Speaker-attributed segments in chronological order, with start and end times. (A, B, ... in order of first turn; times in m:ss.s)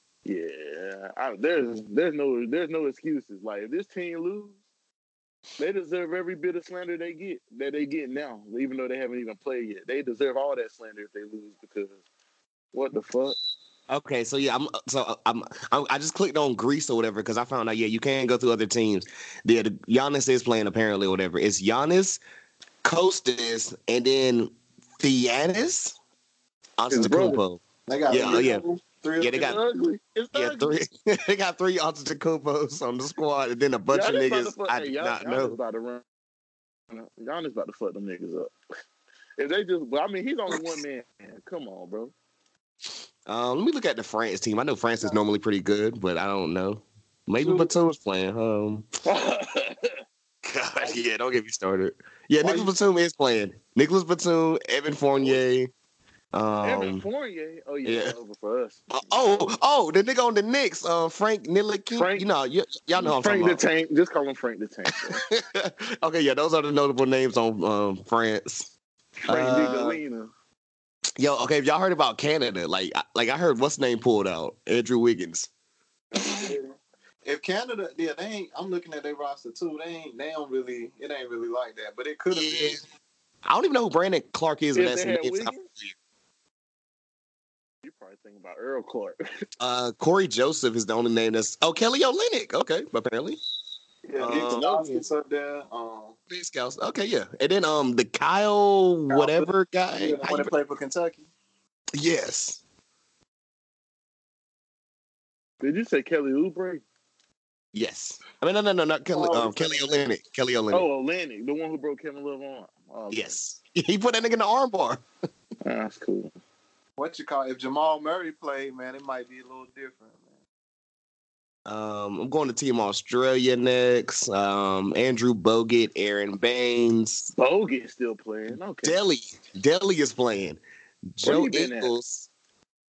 0:00.3-0:04.6 A
0:05.6-0:12.0 A
0:12.7-0:13.4 A
0:13.9-0:22.2 B
0:22.8-0:26.0 B
0:26.8-0:28.6 B
0:26.9-0:27.4 A
0:27.9-0:29.6 C
0:28.2-0:28.5 A
0:29.2-0:29.6 B
0:29.4-0:30.8 A
0:30.3-0:35.6 B
0:33.9-0:36.0 A
0:36.9-0:38.5 A
0:39.4-0:42.1 A
0:43.3-0:48.9 B
0:47.4-0:47.7 C
0:49.1-0:49.9 A
0:50.4-0:55.7 B
0:52.4-0:52.7 C
0:55.2-0:55.4 A
0:56.3-0:57.0 B
0:56.6-0:59.5 A
0:57.8-0:58.2 B
0:58.9-1:03.7 B
1:01.9-1:02.3 A
1:03.0-1:05.2 A
1:05.1-1:08.7 B
1:09.2-1:10.3 A
1:09.3-1:10.0 B
1:11.2-1:15.5 B
1:16.2-1:16.6 C
1:17.2-1:22.8 C
1:22.3-1:22.8 B
1:23.4-1:26.0 B
1:24.8-1:25.7 A
1:27.8-1:29.2 A
1:29.6-1:33.4 B
1:34.1-1:36.2 C
1:34.2-1:35.0 B
1:34.3-1:35.0 A
1:36.3-1:40.5 B
1:39.1-1:41.3 C
1:42.0-1:42.6 B
1:45.6-1:46.8 A
1:47.7-1:50.9 B
1:49.1-1:49.9 C
1:50.7-1:53.4 A
1:53.1-1:55.0 B
1:55.6-1:56.3 A
1:57.0-2:00.2 C
2:01.7-2:07.3 B
2:07.4-2:09.0 A
2:08.8-2:10.6 B
2:11.1-2:12.3 B
2:11.2-2:11.9 A